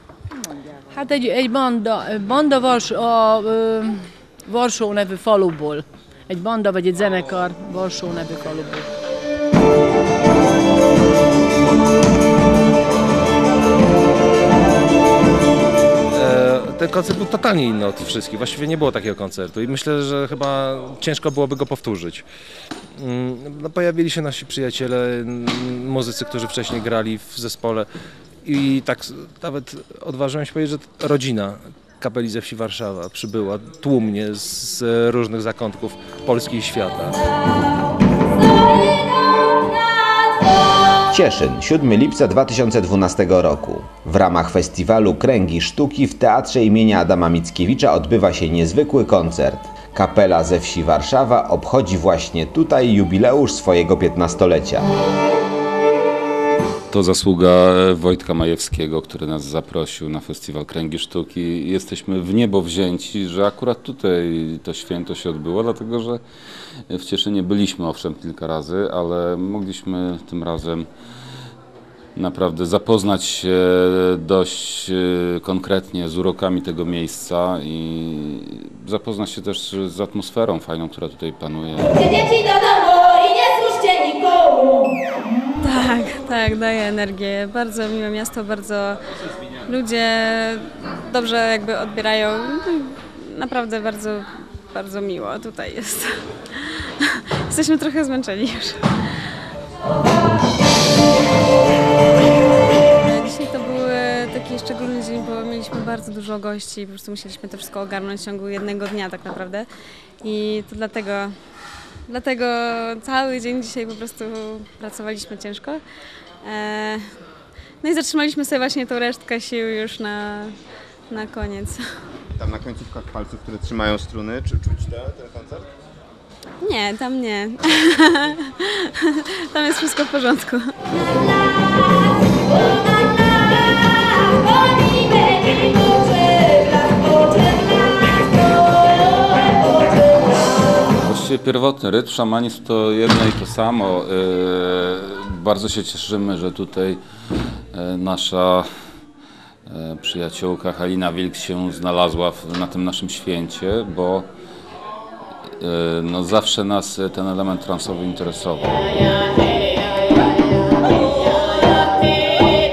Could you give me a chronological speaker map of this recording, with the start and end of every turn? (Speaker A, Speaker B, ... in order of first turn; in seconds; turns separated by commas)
Speaker A: 0.9-8.9, Speaker B: 16.1-22.3, Speaker B: 22.9-27.9, Speaker B: 28.4-37.2, Speaker C: 41.1-54.9, Speaker D: 56.9-66.2, Speaker D: 66.9-70.9, Speaker D: 72.1-82.4, Speaker E: 82.5-84.5, Speaker E: 85.6-89.0, Speaker E: 89.6-99.3, Speaker E: 103.0-109.7, Speaker E: 110.2-111.3, Speaker E: 112.1-115.8, Speaker E: 116.4-117.2, Speaker E: 117.8-120.5, Speaker E: 121.1-121.8, Speaker F: 122.4-125.7, Speaker E: 126.6-130.7, Speaker D: 141.0-147.0, Speaker D: 147.7-148.7, Speaker D: 149.7-154.3, Speaker D: 155.6-159.1